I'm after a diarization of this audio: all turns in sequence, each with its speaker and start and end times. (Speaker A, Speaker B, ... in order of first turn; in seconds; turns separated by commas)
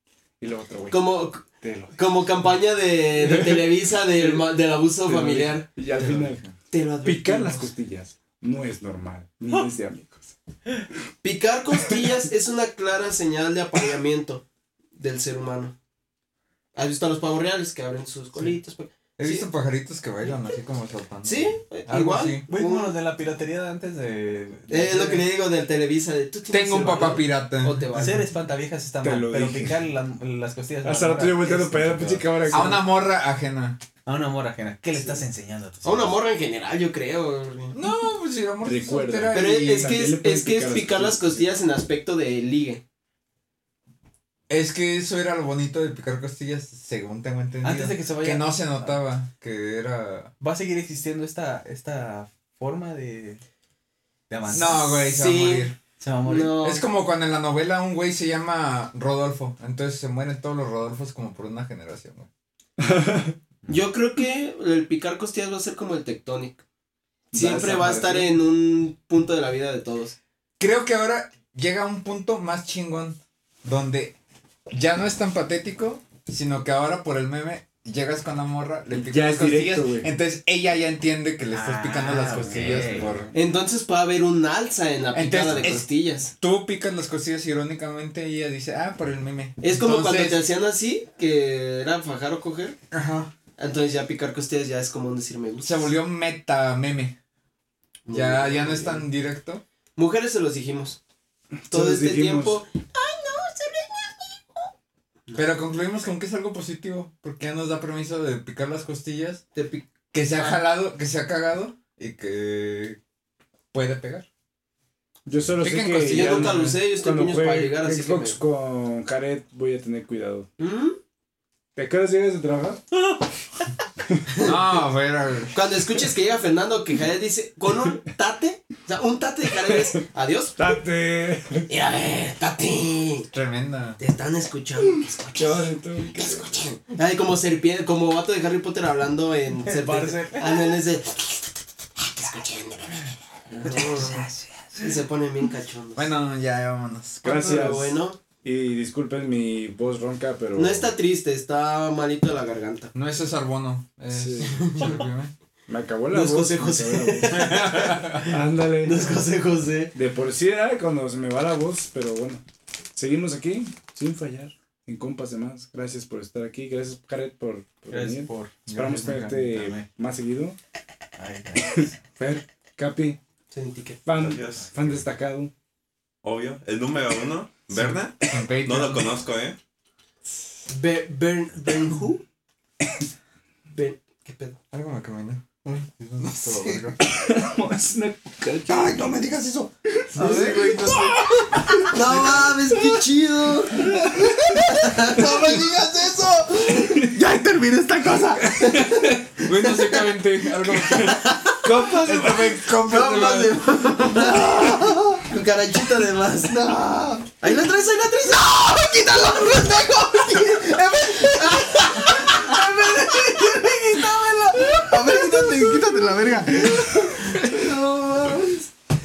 Speaker A: 0.4-2.0, Speaker B: 0.9-1.4, Speaker B: 1.9-5.7, Speaker A: 3.2-4.5, Speaker A: 5.0-6.4, Speaker C: 5.9-6.5, Speaker B: 6.7-7.7, Speaker A: 7.0-10.3, Speaker B: 11.2-14.4, Speaker B: 14.9-15.7, Speaker B: 16.7-19.4, Speaker C: 19.2-22.4, Speaker B: 21.2-22.9, Speaker D: 22.4-25.2, Speaker B: 24.7-28.2, Speaker C: 26.5-27.9, Speaker D: 27.9-32.7, Speaker A: 29.0-29.8, Speaker A: 30.8-32.8, Speaker C: 32.5-33.8, Speaker D: 34.0-36.1, Speaker B: 35.8-37.8, Speaker C: 37.7-40.0, Speaker A: 38.6-41.5, Speaker B: 39.3-42.8, Speaker C: 44.5-50.3, Speaker D: 47.6-49.0, Speaker D: 50.4-53.4, Speaker D: 54.3-54.9, Speaker C: 54.5-55.8, Speaker B: 55.0-55.7, Speaker D: 56.0-56.6, Speaker B: 56.2-56.8, Speaker C: 56.6-62.3, Speaker A: 62.8-63.4, Speaker B: 63.7-66.6, Speaker A: 67.3-68.3, Speaker B: 67.3-70.2, Speaker C: 70.6-74.1, Speaker C: 74.7-83.3, Speaker A: 78.9-80.1, Speaker D: 81.5-83.3, Speaker A: 82.3-83.3, Speaker B: 83.3-86.3, Speaker C: 85.1-85.8, Speaker C: 86.4-90.4, Speaker B: 89.6-92.8, Speaker C: 92.9-93.3, Speaker B: 93.6-95.9, Speaker C: 95.6-97.2, Speaker B: 98.0-99.0, Speaker C: 98.1-99.6, Speaker B: 100.0-101.0, Speaker A: 101.6-102.6, Speaker B: 101.7-104.7, Speaker C: 105.3-109.4, Speaker B: 109.5-110.6, Speaker C: 110.1-113.0, Speaker C: 113.7-114.2, Speaker A: 115.2-120.5, Speaker C: 115.6-116.8, Speaker B: 116.1-118.4, Speaker B: 120.6-121.0, Speaker A: 121.7-122.8, Speaker C: 124.4-125.5, Speaker B: 125.5-130.7, Speaker A: 130.6-131.7, Speaker B: 131.7-133.3, Speaker C: 133.3-134.0, Speaker B: 134.0-141.5, Speaker A: 135.3-136.5, Speaker D: 139.6-140.8, Speaker B: 142.1-144.3, Speaker B: 144.8-146.1, Speaker C: 145.9-147.5, Speaker B: 147.2-148.2, Speaker A: 147.2-150.9, Speaker B: 150.5-152.9, Speaker C: 152.9-155.3, Speaker A: 154.1-154.8, Speaker B: 154.6-155.0, Speaker A: 155.7-159.1, Speaker B: 156.1-158.3, Speaker C: 157.5-158.1, Speaker B: 158.8-159.9, Speaker A: 159.9-162.4, Speaker A: 162.9-170.6, Speaker D: 167.9-169.8, Speaker C: 168.7-169.0, Speaker D: 171.2-171.9, Speaker A: 171.7-173.2, Speaker B: 173.5-174.0, Speaker A: 174.0-175.5, Speaker D: 174.1-175.0, Speaker E: 176.2-179.6, Speaker C: 177.7-179.2, Speaker B: 180.7-182.2, Speaker B: 183.7-184.5, Speaker C: 184.7-187.0, Speaker D: 186.0-186.9, Speaker A: 187.0-189.0, Speaker C: 188.7-192.9, Speaker A: 190.1-191.8, Speaker B: 190.2-200.1, Speaker C: 193.8-195.7, Speaker A: 196.7-197.2, Speaker A: 198.6-199.1, Speaker C: 199.4-201.3, Speaker B: 201.1-201.6, Speaker A: 201.5-202.6, Speaker C: 201.9-203.6, Speaker B: 202.8-215.8, Speaker C: 204.1-205.2, Speaker C: 211.1-213.7, Speaker C: 214.5-218.6, Speaker B: 216.6-217.6, Speaker B: 218.2-218.5